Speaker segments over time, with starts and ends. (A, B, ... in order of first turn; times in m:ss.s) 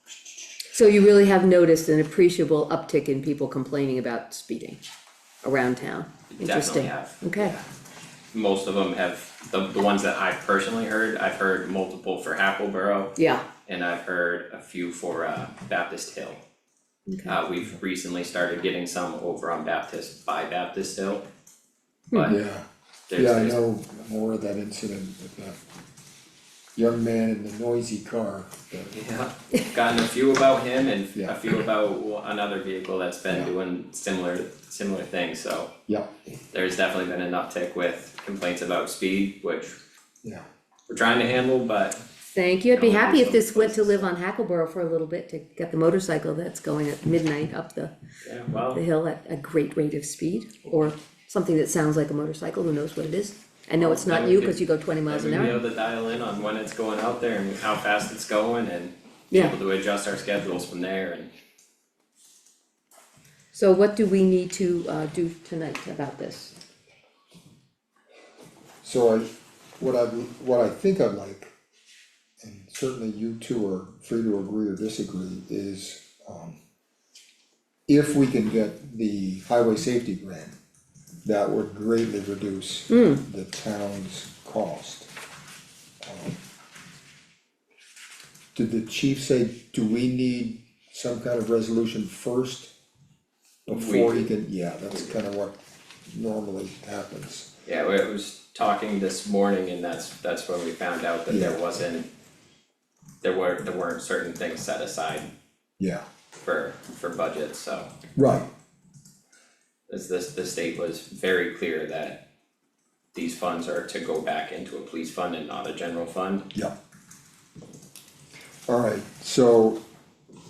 0:00.7-0:04.8 A
0:05.4-0:07.5 A
0:06.3-0:07.6 B
0:08.3-0:16.4 B
0:13.2-0:13.4 A
0:17.1-0:17.4 A
0:17.2-0:21.2 B
0:22.3-0:25.6 C
0:23.1-0:23.6 B
0:26.8-0:29.0 C
0:28.9-0:35.7 B
0:36.5-0:39.8 B
0:40.9-0:42.0 B
0:42.3-0:47.9 A
0:42.7-0:44.1 B
0:48.2-0:48.8 B
0:48.7-0:55.6 A
0:53.8-1:01.3 B
0:59.3-0:59.6 A
1:03.5-1:06.5 A
1:08.8-1:09.3 C
1:09.8-1:11.5 C
1:12.4-1:16.6 C
1:17.9-1:20.6 C
1:21.2-1:25.1 C
1:22.9-1:23.2 A
1:26.0-1:26.4 C
1:28.5-1:32.7 C
1:33.6-1:37.5 C
1:33.7-1:34.3 B
1:34.9-1:35.2 B
1:37.6-1:42.1 B
1:41.3-1:41.6 C
1:43.2-1:45.3 B
1:46.4-1:47.9 B
1:48.2-1:48.5 C
1:49.9-1:52.2 B
1:53.1-1:56.5 B
1:58.7-1:59.8 C